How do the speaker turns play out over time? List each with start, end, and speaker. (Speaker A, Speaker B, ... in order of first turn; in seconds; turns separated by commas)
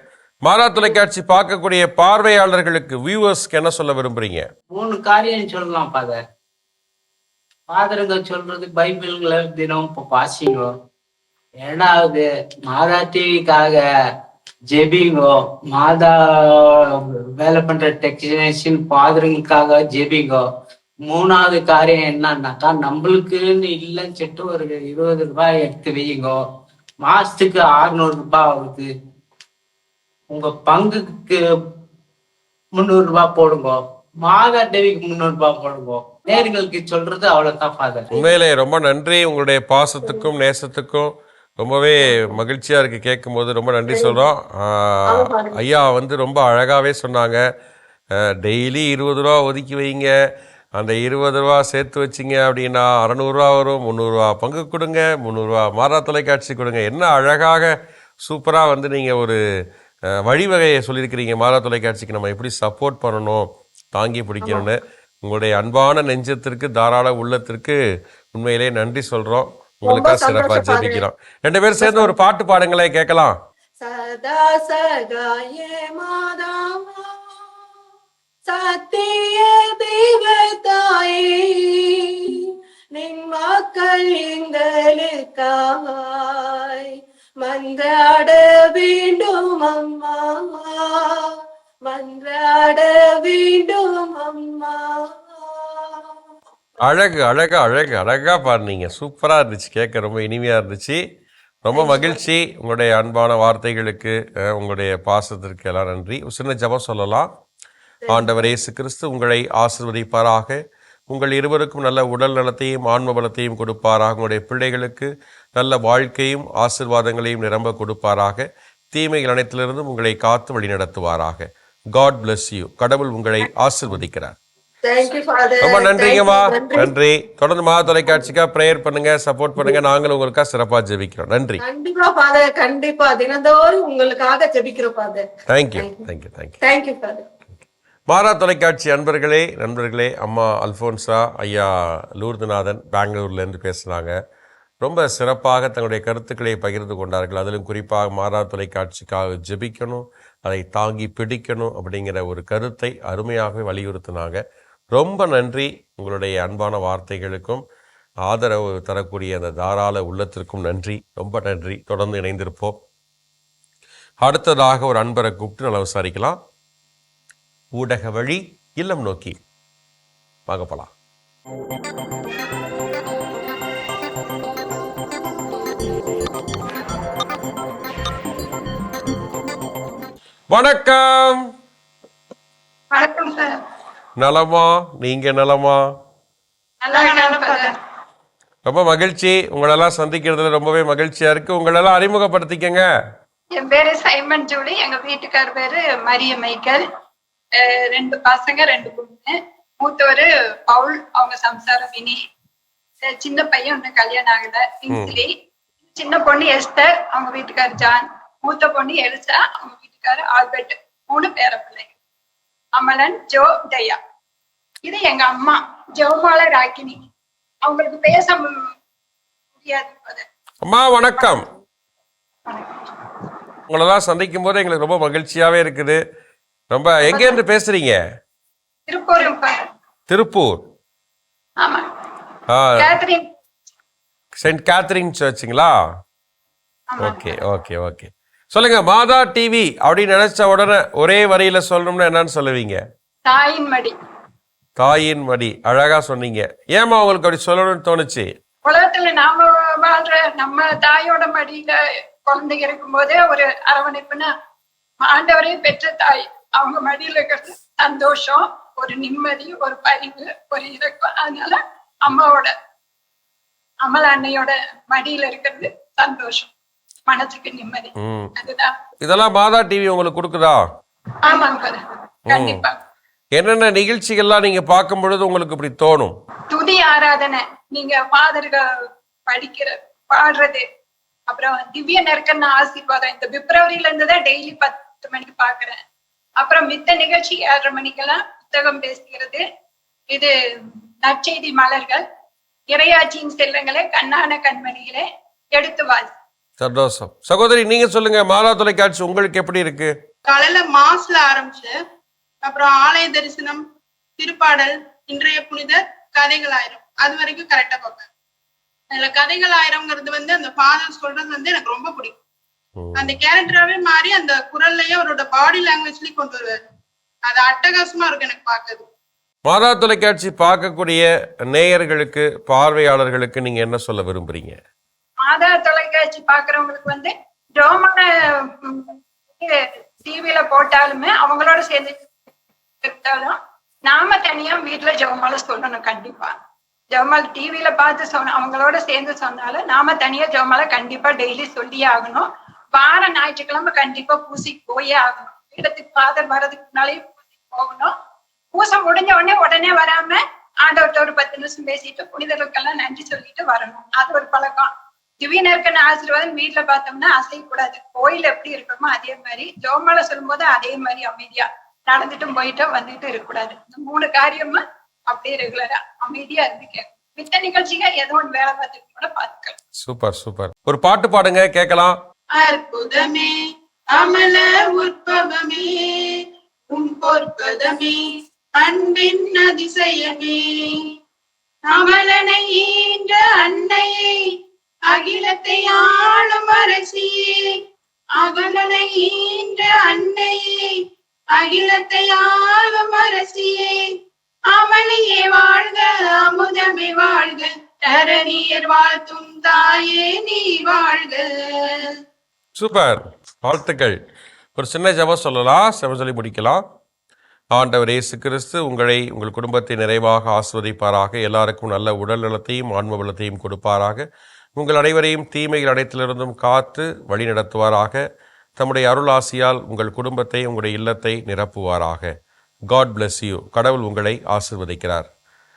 Speaker A: 0.5-4.5, Speaker B: 4.7-6.2, Speaker B: 7.7-10.7, Speaker B: 11.6-13.8, Speaker B: 14.7-16.8, Speaker B: 17.4-20.4, Speaker B: 21.1-26.4, Speaker B: 27.0-28.9, Speaker B: 30.3-31.4, Speaker B: 32.8-38.1, Speaker A: 38.1-47.4, Speaker C: 42.1-42.3, Speaker C: 43.9-44.2, Speaker C: 45.1-45.6, Speaker A: 48.4-50.1, Speaker A: 50.8-57.7, Speaker A: 58.2-59.4, Speaker A: 60.2-67.8, Speaker A: 68.3-73.3, Speaker C: 69.9-71.0, Speaker C: 71.8-72.1, Speaker C: 73.8-77.1, Speaker C: 78.5-81.9, Speaker C: 82.9-91.3, Speaker C: 91.9-94.8, Speaker A: 96.8-101.0, Speaker A: 101.6-107.3, Speaker C: 101.7-102.2, Speaker C: 108.0-108.5, Speaker A: 108.1-124.3, Speaker C: 124.9-126.9, Speaker A: 125.6-131.6, Speaker C: 131.6-135.2, Speaker A: 135.5-136.6, Speaker C: 135.8-136.0, Speaker C: 136.6-137.2, Speaker A: 138.1-144.1, Speaker A: 144.8-154.4, Speaker A: 154.9-157.6, Speaker A: 158.2-162.8, Speaker A: 164.2-166.4, Speaker A: 167.8-169.4, Speaker A: 170.5-170.9, Speaker A: 180.5-181.5, Speaker D: 182.9-183.6, Speaker A: 184.2-185.8, Speaker D: 186.8-187.8, Speaker E: 186.9-187.7, Speaker A: 188.6-192.8, Speaker D: 193.6-196.8, Speaker D: 197.6-202.2, Speaker D: 203.0-205.3, Speaker A: 204.9-205.2, Speaker D: 205.9-211.9, Speaker D: 212.8-214.0, Speaker D: 214.8-217.0, Speaker D: 217.6-218.6, Speaker D: 219.6-220.2, Speaker A: 220.6-221.4, Speaker D: 222.5-223.1, Speaker A: 223.7-226.0, Speaker A: 226.7-228.0, Speaker D: 227.1-227.4, Speaker D: 228.9-229.7, Speaker A: 230.1-230.6, Speaker A: 232.5-232.9, Speaker D: 232.8-233.3, Speaker A: 234.4-235.7, Speaker D: 236.9-237.4, Speaker A: 237.0-242.8, Speaker D: 243.2-243.9, Speaker A: 244.8-248.3, Speaker D: 248.7-254.3, Speaker D: 255.0-262.5, Speaker D: 263.8-266.5, Speaker D: 267.1-268.7, Speaker A: 268.0-268.3, Speaker A: 269.0-270.6, Speaker D: 271.2-272.8, Speaker A: 272.3-272.6, Speaker A: 273.4-276.1, Speaker D: 276.5-278.6, Speaker D: 279.3-280.6, Speaker D: 281.3-285.8, Speaker D: 286.4-289.4, Speaker D: 291.0-292.0, Speaker D: 292.7-296.1, Speaker A: 296.6-299.9, Speaker E: 300.3-301.7, Speaker E: 302.4-303.6, Speaker E: 304.2-308.1, Speaker E: 308.9-312.2, Speaker A: 312.8-313.2, Speaker E: 312.9-316.6, Speaker E: 317.3-318.9, Speaker A: 319.5-324.6, Speaker D: 325.2-331.9, Speaker D: 332.8-336.3, Speaker D: 336.9-347.9, Speaker D: 348.5-369.5, Speaker A: 369.8-372.0, Speaker E: 372.4-373.3, Speaker E: 373.9-378.0, Speaker E: 378.6-380.9, Speaker E: 381.7-384.2, Speaker E: 384.9-387.6, Speaker E: 388.2-390.8, Speaker E: 391.3-393.9, Speaker E: 394.5-402.0, Speaker A: 402.6-404.0, Speaker A: 404.6-406.6, Speaker A: 407.5-418.0, Speaker A: 418.6-422.1, Speaker A: 422.7-425.1